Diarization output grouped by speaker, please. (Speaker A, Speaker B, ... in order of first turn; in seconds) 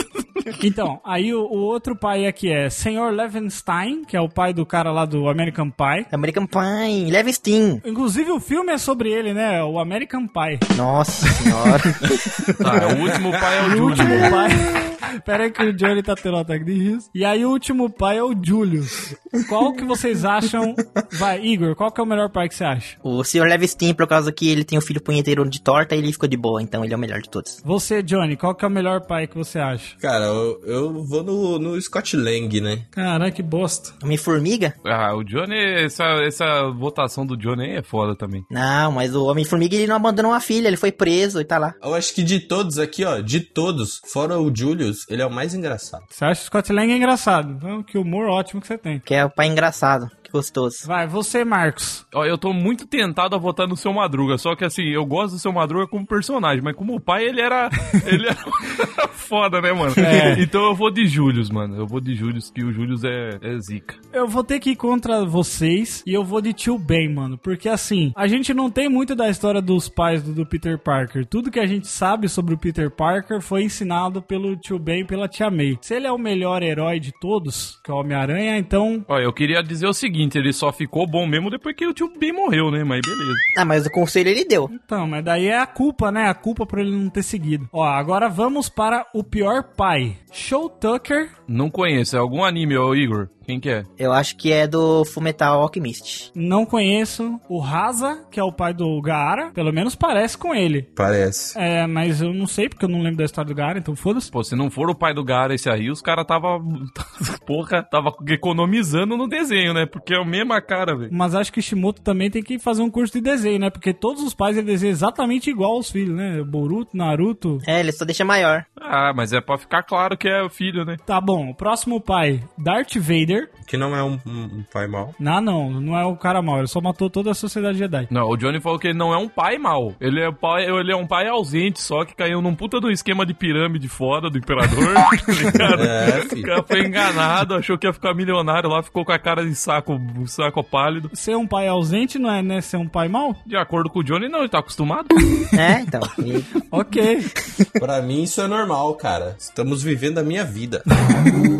Speaker A: 0.6-6.1, 7.8-10.7, 11.3-11.8, 13.6-23.0, 27.6-29.9, 32.9-33.9, 46.1-49.0, 50.8-52.0, 60.0-60.4, 64.1-79.1, 84.7-91.3, 96.3-100.9, 101.5-104.3, 111.1-117.6, 121.1-123.5, 125.2-128.1, 141.1-143.4, 146.7-147.3
Speaker B: 6.1-7.8, 10.7-12.5, 23.0-27.6, 34.0-34.7, 38.5-41.8, 49.0-50.9, 83.5-84.7, 94.0-96.3, 117.6-118.7, 145.5-146.2
Speaker C: 12.6-14.3, 34.8-38.4, 52.1-64.0, 79.1-83.4, 91.5-93.9, 104.3-111.1, 118.8-121.0, 128.1-141.1, 143.4-145.2
Speaker D: 30.0-32.9, 41.8-46.0, 101.0-101.5, 123.6-125.2, 135.7-136.5, 146.2-146.5, 147.8-150.8